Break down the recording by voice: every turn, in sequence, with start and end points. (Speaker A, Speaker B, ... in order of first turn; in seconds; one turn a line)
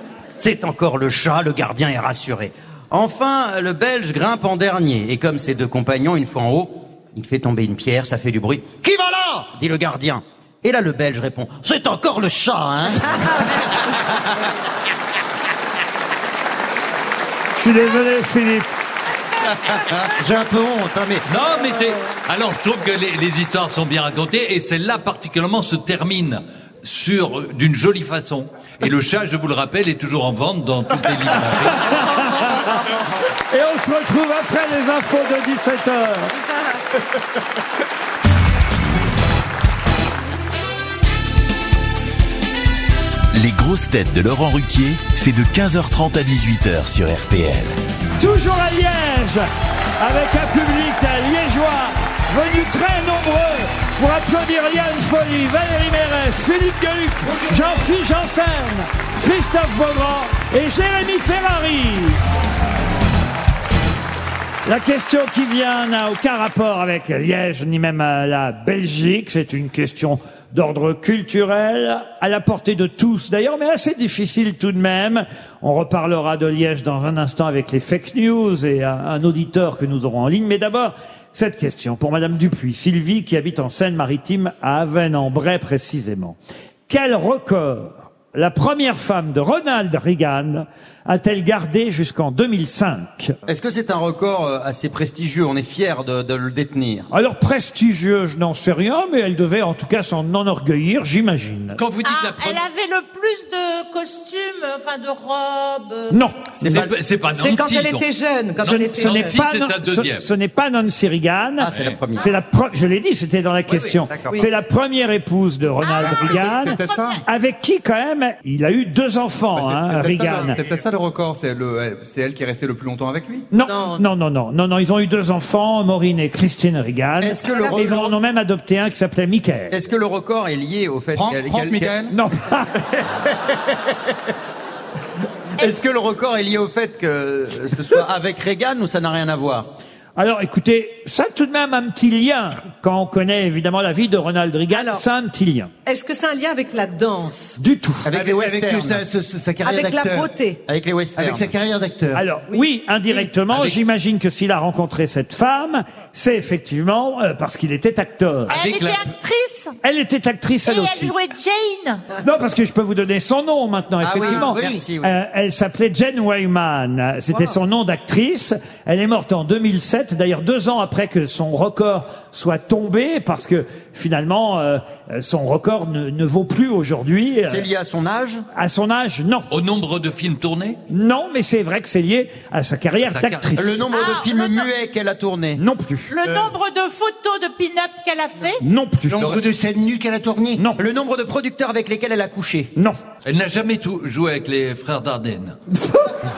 Speaker A: 0.4-13.6
Speaker B: 13.4-13.7
Speaker C: 17.6-18.7
Speaker A: 20.1-21.2
Speaker D: 21.3-32.5
Speaker C: 31.7-32.7
Speaker C: 33.5-36.3
Speaker E: 43.3-47.8
Speaker C: 48.2-49.5
Speaker C: 50.0-62.2
Speaker C: 64.6-86.4
Speaker C: 86.9-93.3
Speaker A: 93.5-97.1
Speaker C: 97.1-101.8
Speaker D: 101.8-102.6
Speaker F: 102.0-106.2
Speaker C: 106.1-106.8
Speaker A: 106.6-106.9
Speaker D: 106.6-108.0
Speaker B: 107.3-109.3
Speaker D: 108.6-110.2
Speaker C: 108.6-120.6
Speaker A: 111.6-112.3
Speaker D: 111.7-112.0
Speaker A: 114.1-114.4
Speaker F: 115.8-117.2
Speaker G: 116.0-117.2
Speaker G: 119.5-123.5
Speaker C: 123.5-129.7
Speaker B: 123.6-124.0
Speaker A: 127.2-128.1
Speaker B: 127.4-127.9
Speaker A: 129.7-132.0
Speaker G: 131.1-132.2
Speaker C: 132.1-132.8
Speaker A: 135.6-139.7
Speaker C: 140.2-145.7
Speaker B: 144.7-145.0
Speaker B: 145.8-147.6
Speaker C: 147.6-148.1
Speaker A: 148.0-149.0
Speaker H: 148.1-150.3
Speaker B: 149.6-150.6
Speaker A: 150.7-151.5
Speaker H: 151.2-152.2
Speaker C: 152.1-158.6
Speaker B: 152.5-153.2
Speaker D: 158.5-159.1
Speaker F: 158.5-159.7
Speaker C: 159.8-161.1
Speaker F: 160.7-162.0
Speaker C: 162.2-177.7
Speaker A: 164.0-165.1
Speaker H: 164.2-164.8
Speaker A: 177.5-178.4
Speaker C: 178.5-179.5
Speaker D: 179.5-180.8
Speaker C: 180.9-183.9
Speaker D: 183.1-183.5
Speaker A: 183.6-185.6
Speaker F: 183.9-184.7
Speaker C: 185.6-186.1
Speaker F: 186.1-188.6
Speaker H: 186.2-186.5
Speaker C: 188.6-189.3
Speaker H: 189.1-190.6
Speaker G: 189.2-189.4
Speaker C: 190.6-190.8
Speaker A: 190.8-192.7
Speaker D: 193.2-195.6
Speaker C: 195.8-196.1